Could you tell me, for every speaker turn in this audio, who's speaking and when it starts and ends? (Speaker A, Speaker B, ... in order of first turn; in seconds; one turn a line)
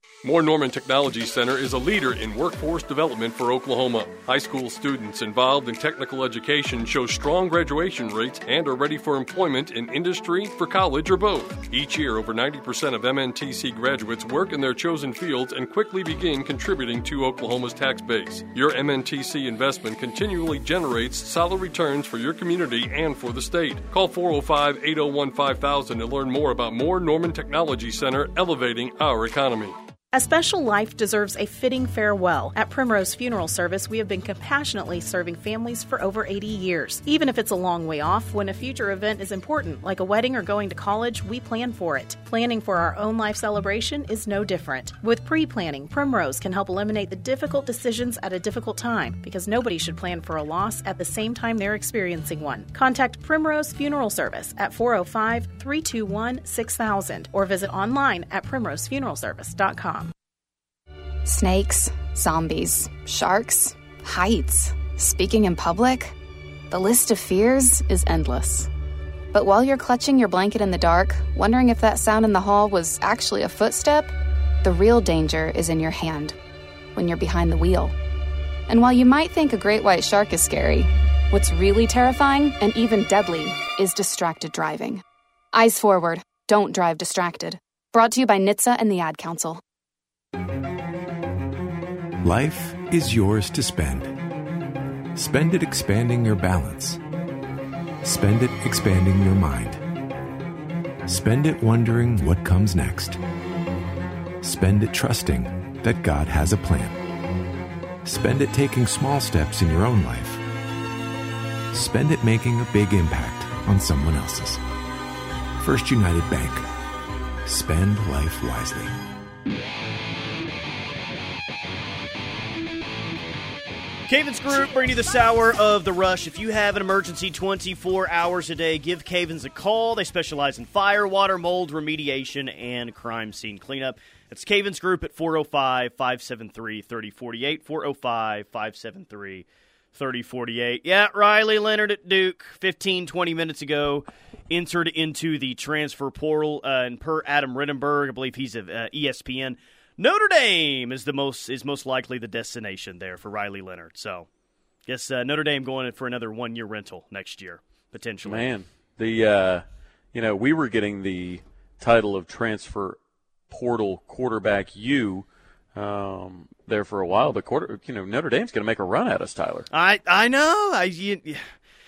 Speaker A: 0.2-29.8
Speaker B: 30.1-60.1
Speaker C: 61.3-66.1
Speaker C: 66.7-68.7
Speaker C: 69.3-74.1
Speaker C: 74.6-76.4
Speaker C: 77.0-77.9
Speaker C: 78.7-85.0
Speaker C: 85.5-89.6
Speaker D: 92.2-94.1
Speaker D: 95.2-97.0
Speaker D: 98.0-99.8
Speaker D: 101.1-103.2
Speaker D: 104.4-107.0
Speaker D: 108.0-110.4
Speaker D: 111.7-114.6
Speaker D: 115.6-116.7
Speaker D: 117.5-118.9
Speaker E: 124.1-154.3
Speaker E: 154.9-158.5
Speaker F: 158.2-159.6
Speaker F: 160.1-163.0
Speaker F: 163.5-169.7
Speaker E: 169.7-171.4